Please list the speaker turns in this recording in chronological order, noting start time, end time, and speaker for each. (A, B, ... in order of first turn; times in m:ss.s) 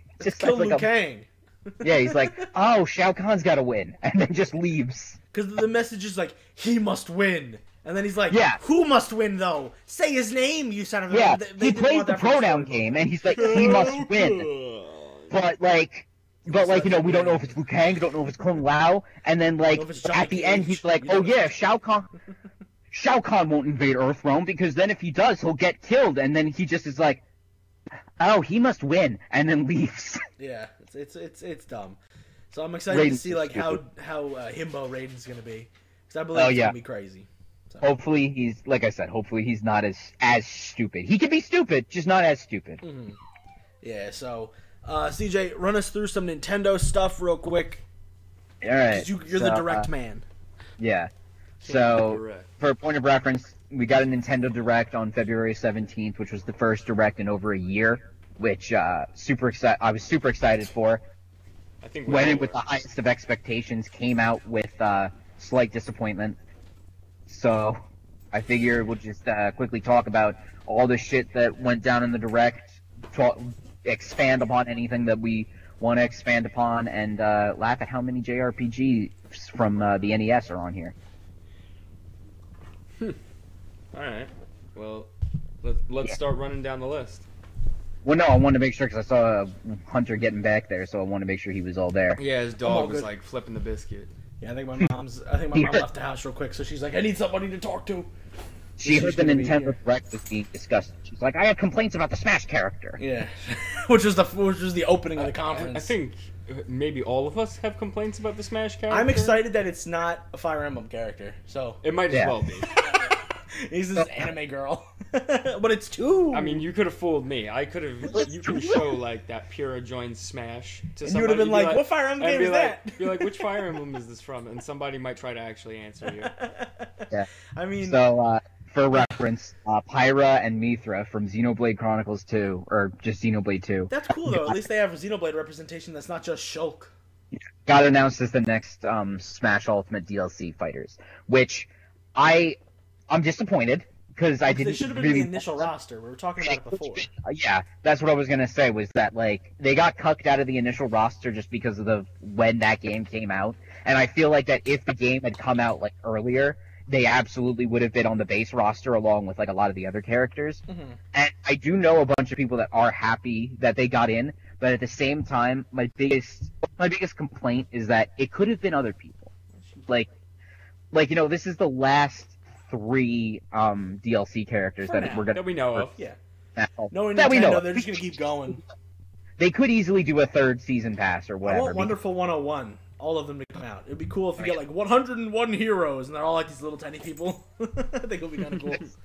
0:00.2-0:00.9 A
0:00.2-0:02.5 B
0:01.8-0:05.2 A
0:05.3-0:14.8 B
0:08.3-0:08.6 A
0:11.1-0:14.5 A
0:15.3-0:22.1 A
0:16.5-0:17.5 B
0:19.7-0:21.6 B
0:22.9-0:27.2 A
0:28.2-0:30.2 A
0:30.4-0:32.0 B
0:32.5-0:37.9 B
0:32.9-0:33.8 A
0:36.3-0:36.7 A
0:37.8-0:42.8 A
0:42.8-0:43.2 B
0:43.8-0:47.8 B
0:48.6-0:49.9 A
0:48.9-0:50.2 B
0:50.8-0:51.1 A
0:51.6-0:52.5 C
0:51.6-1:01.0 A
1:01.8-1:02.6 C
1:02.1-1:06.4 A
1:07.3-1:07.8 A
1:08.3-1:20.9 A
1:23.9-1:25.1 C
1:25.6-1:27.2 C
1:28.0-1:32.2 A
1:32.2-1:34.1 C
1:32.6-1:33.1 B
1:34.4-1:38.1 B
1:35.5-1:35.8 A
1:38.8-1:43.0 A
1:38.8-1:39.8 B
1:43.0-1:45.9 B
1:45.2-1:49.4 C
1:48.9-1:51.8 B
1:51.8-1:52.7 C
1:52.8-1:56.6 B
1:54.0-1:54.3 A
1:56.3-2:06.3 C
1:58.1-1:58.9 A
2:01.0-2:03.4 B
2:06.2-2:08.0 B
2:07.8-2:14.6 A
2:13.9-2:16.9 B
2:17.6-2:22.6 A
2:23.1-2:25.7 A
2:24.4-2:27.1 B
2:26.4-2:40.6 A
2:40.7-2:41.0 B
2:41.1-2:49.3 A
2:49.6-2:49.9 B
2:50.9-2:55.9 A
2:54.8-2:55.3 B
2:55.3-2:56.0 C
2:56.6-2:58.2 A
2:56.9-2:58.6 B
2:59.4-3:01.9 A
3:01.4-3:08.9 B